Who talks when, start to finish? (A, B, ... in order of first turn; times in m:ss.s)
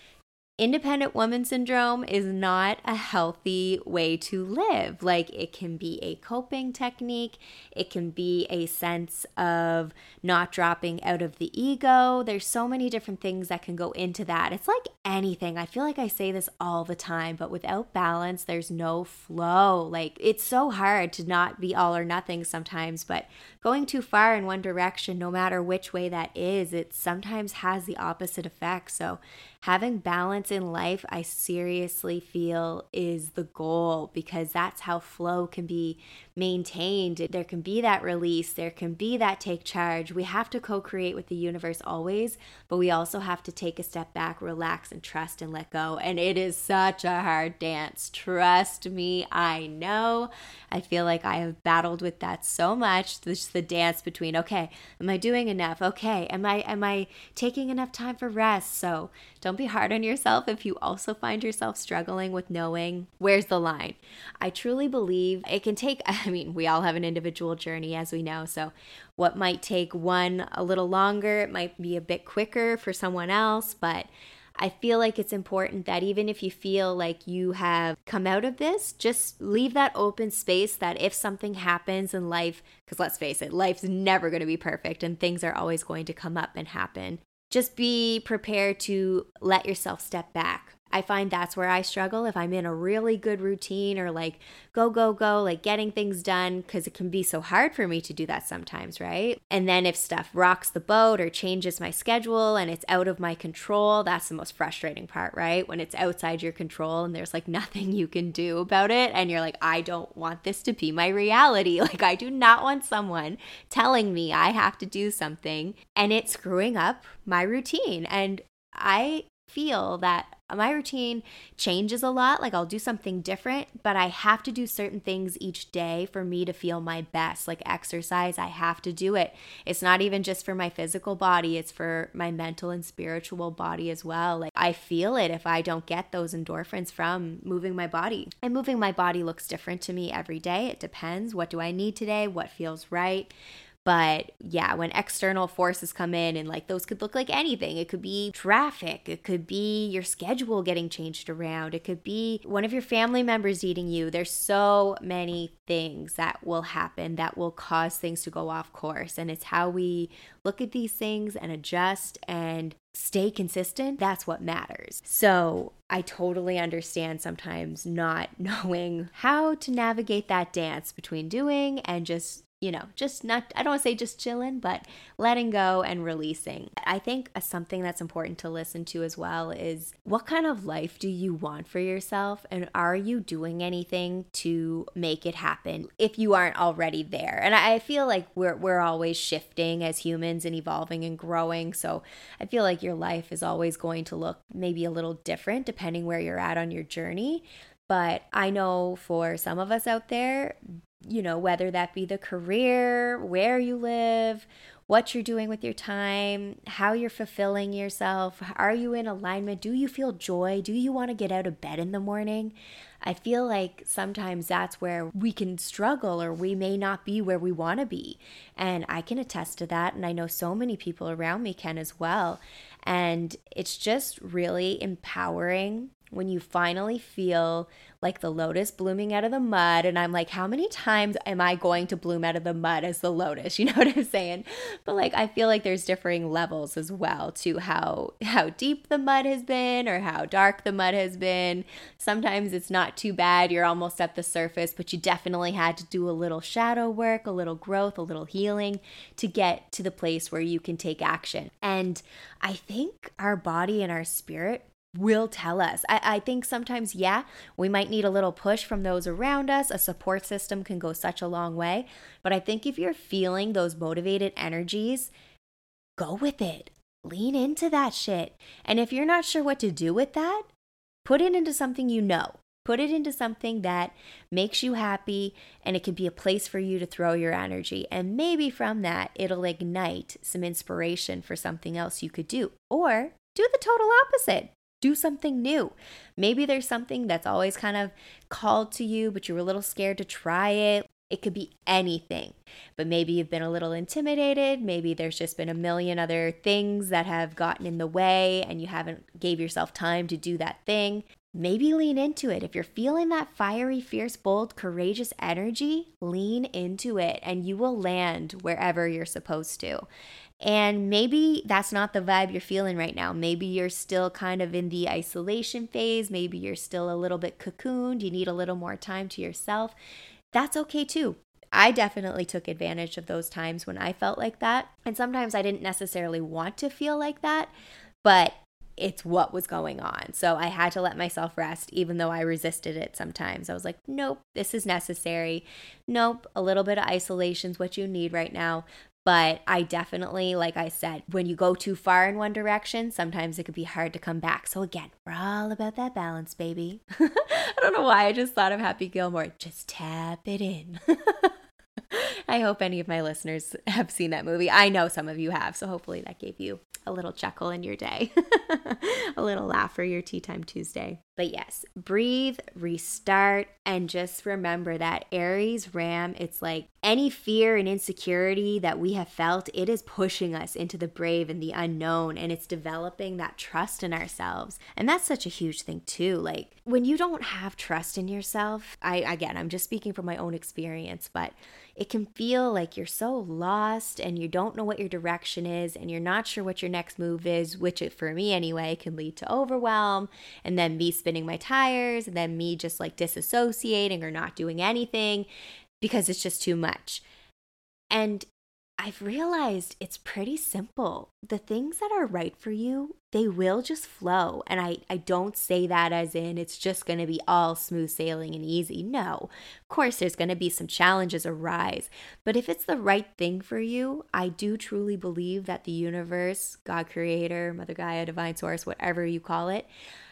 0:00.6-2:23.3 A
2:23.8-4:25.1 A
4:26.0-4:30.5 A
4:31.0-5:09.9 A
5:10.4-5:19.8 A
5:20.3-5:27.5 A
5:28.0-5:51.3 A
5:51.9-6:35.3 A
6:35.8-6:37.0 A
6:37.9-6:38.3 A
6:38.8-6:59.7 A